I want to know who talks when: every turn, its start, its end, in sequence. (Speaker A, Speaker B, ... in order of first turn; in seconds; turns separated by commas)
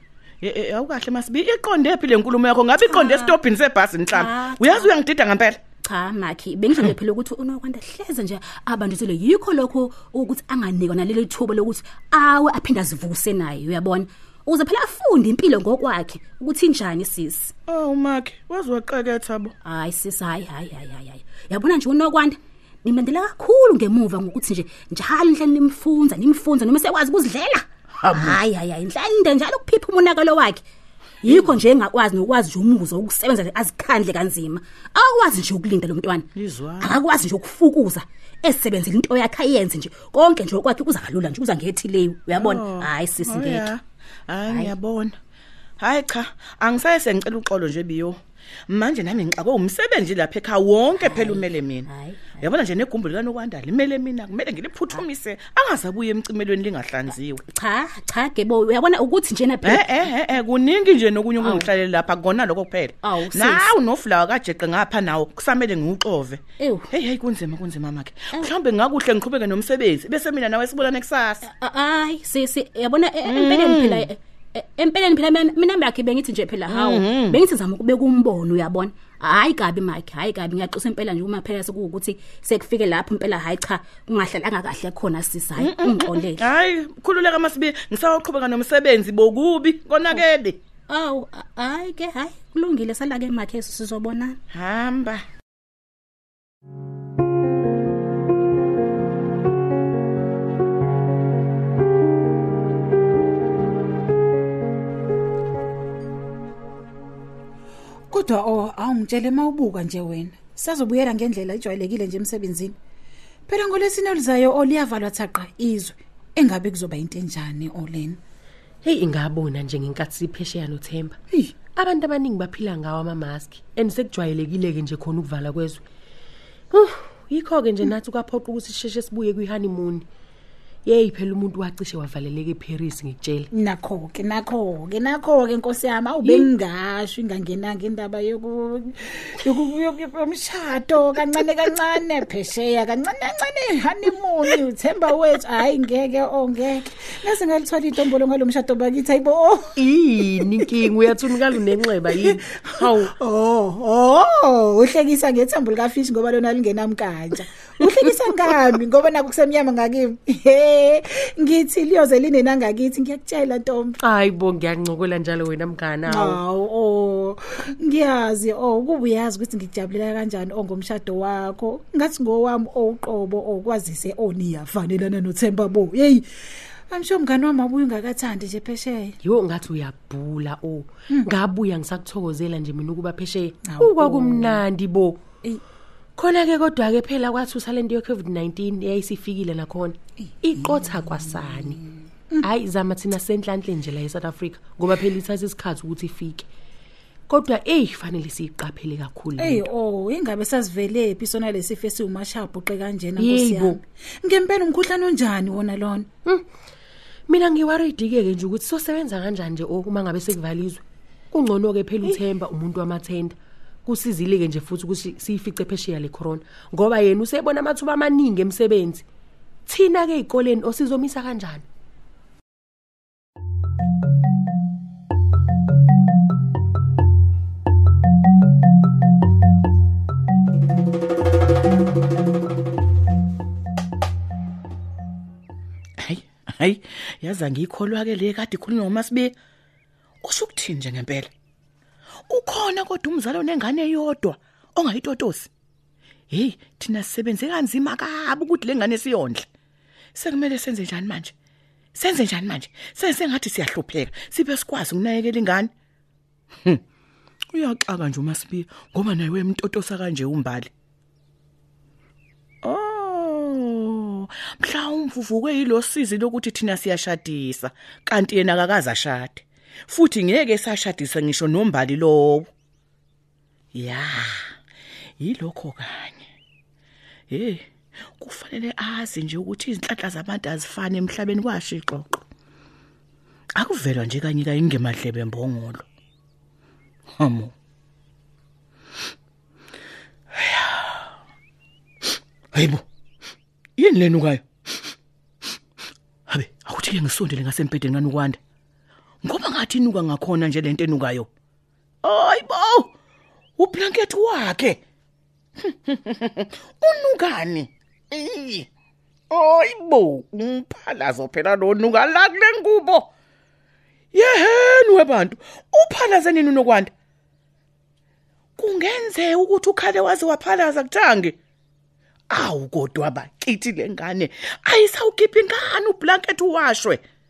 Speaker A: 0.4-5.6, Speaker B: 2.8-3.4, Speaker B: 4.1-5.0, Speaker B: 5.8-17.5, Speaker A: 17.7-19.5, Speaker B: 19.6-30.6, Speaker A: 28.0-28.4, Speaker B: 31.2-36.3, Speaker A: 31.2-31.6, Speaker A: 36.4-37.0, Speaker B: 36.8-43.7, Speaker A: 42.3-45.1, Speaker B: 44.5-44.7, Speaker A: 45.8-57.4, Speaker B: 51.0-52.5, Speaker B: 57.5-60.1, Speaker A: 59.6-71.5, Speaker B: 61.4-61.7, Speaker B: 63.0-63.7, Speaker B: 66.6-66.9, Speaker B: 71.4-86.5, Speaker A: 73.2-74.1, Speaker A: 76.7-77.4, Speaker A: 85.6-90.6, Speaker B: 90.9-94.4, Speaker A: 94.5-95.2, Speaker C: 108.1-112.8, Speaker C: 113.5-118.2, Speaker D: 118.8-121.2, Speaker D: 121.8-125.8, Speaker D: 126.7-130.1, Speaker D: 130.8-133.5, Speaker C: 133.5-149.8, Speaker D: 149.8-153.1, Speaker C: 152.2-164.0, Speaker D: 164.0-166.4, Speaker C: 166.1-176.2, Speaker C: 176.9-179.2, Speaker D: 179.2-185.2, Speaker C: 183.7-184.6, Speaker D: 186.2-191.8, Speaker C: 190.6-191.2, Speaker D: 192.4-196.5, Speaker D: 197.3-199.7, Speaker C: 199.4-206.1, Speaker D: 203.2-203.8, Speaker D: 207.3-219.1, Speaker D: 219.7-221.7, Speaker A: 236.0-239.3, Speaker A: 240.2-241.3, Speaker A: 242.3-245.5, Speaker A: 246.3-249.5, Speaker A: 250.2-251.3, Speaker A: 252.0-255.7, Speaker A: 257.5-260.7, Speaker A: 262.6-272.5, Speaker A: 273.7-274.5, Speaker A: 275.2-276.2, Speaker A: 277.3-282.2, Speaker A: 283.6-285.9, Speaker A: 287.2-287.5, Speaker A: 290.4-291.1, Speaker A: 292.5-292.8, Speaker A: 293.8-294.4, Speaker A: 296.3-298.4, Speaker A: 299.2-301.3, Speaker A: 302.0-302.9, Speaker A: 303.6-304.8, Speaker A: 305.6-308.7, Speaker A: 309.3-313.1, Speaker A: 314.1-316.9, Speaker A: 318.6-321.4, Speaker A: 322.3-327.0